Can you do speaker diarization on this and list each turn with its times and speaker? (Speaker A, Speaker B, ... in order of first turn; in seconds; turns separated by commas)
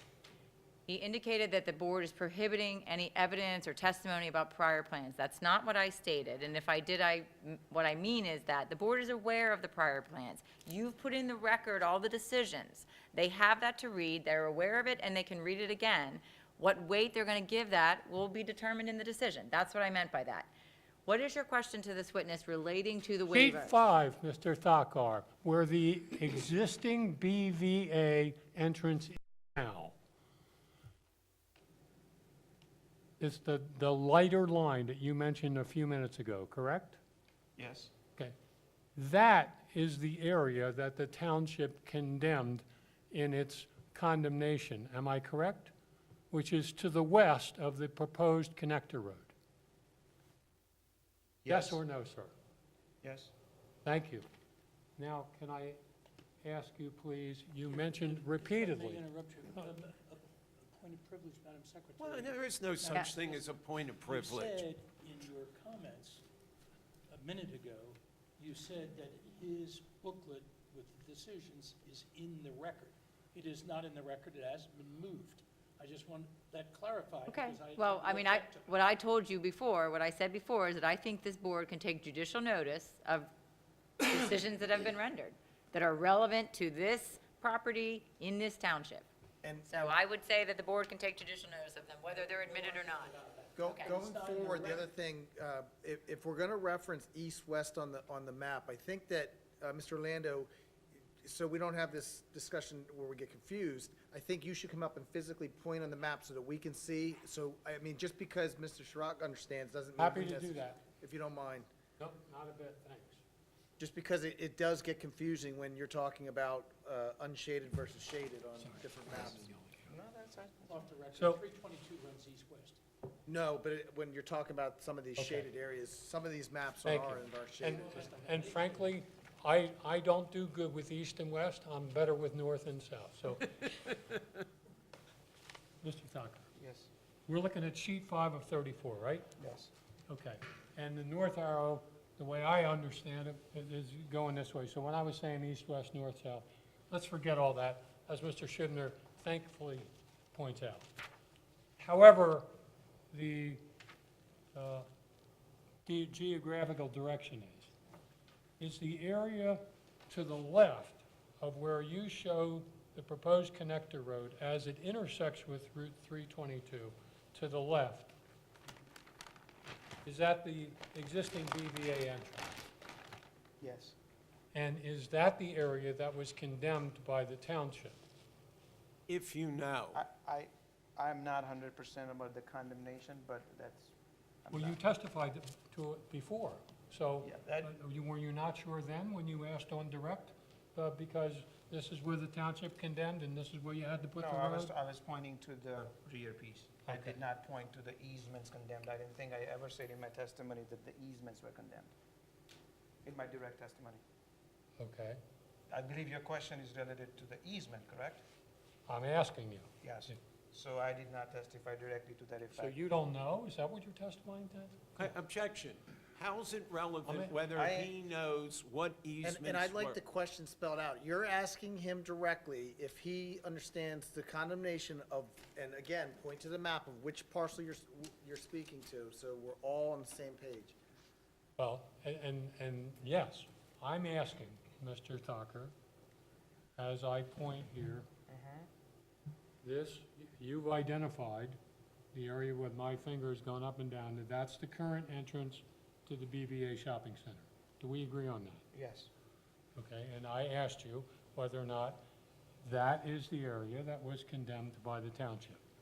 Speaker A: 0.9-20.5, Speaker A: 21.1-23.7, Speaker B: 23.3-29.9, Speaker B: 33.2-37.0, Speaker C: 37.6-37.9, Speaker B: 39.0-45.7, Speaker B: 46.3-49.3, Speaker C: 51.4-51.8, Speaker B: 51.5-52.3, Speaker C: 53.0-53.3, Speaker B: 53.8-54.2, Speaker B: 55.0-55.8, Speaker B: 56.4-59.0, Speaker D: 57.7-66.2, Speaker E: 62.0-64.6, Speaker D: 67.1-78.8, Speaker A: 77.3-83.3, Speaker A: 84.0-89.0, Speaker F: 89.4-89.9, Speaker A: 89.7-94.0, Speaker D: 92.2-94.9, Speaker F: 93.6-100.5, Speaker F: 101.2-111.7, Speaker B: 110.0-110.8, Speaker B: 112.0-113.2, Speaker F: 113.8-119.5, Speaker B: 118.6-119.8, Speaker C: 119.8-120.8, Speaker D: 120.7-122.8, Speaker B: 121.1-121.4, Speaker F: 123.3-128.1, Speaker B: 125.2-125.5, Speaker B: 126.8-133.5, Speaker D: 127.6-129.0, Speaker B: 135.8-136.4, Speaker C: 136.6-136.9, Speaker B: 137.3-139.3, Speaker C: 139.4-139.7, Speaker B: 140.1-150.9, Speaker B: 151.8-152.5, Speaker B: 153.1-153.6, Speaker B: 154.5-154.9, Speaker B: 155.8-157.7, Speaker B: 158.6-168.1, Speaker B: 170.0-172.6, Speaker C: 173.6-173.9, Speaker B: 174.5-178.0, Speaker E: 179.1-180.0, Speaker C: 179.9-184.8, Speaker B: 184.5-194.7, Speaker C: 187.2-187.7, Speaker C: 194.2-201.9, Speaker B: 196.9-197.2, Speaker C: 203.0-204.0, Speaker B: 204.8-205.2, Speaker C: 205.7-208.2, Speaker B: 208.9-210.2, Speaker C: 209.8-212.8, Speaker B: 212.5-215.1, Speaker E: 215.0-220.0, Speaker B: 217.0-217.4, Speaker F: 217.6-217.9, Speaker F: 219.2-230.7, Speaker B: 231.6-235.7, Speaker B: 236.8-238.1, Speaker C: 238.3-238.7, Speaker B: 239.6-241.6, Speaker B: 242.1-248.6, Speaker C: 248.7-249.1, Speaker B: 249.8-252.0, Speaker B: 252.6-255.6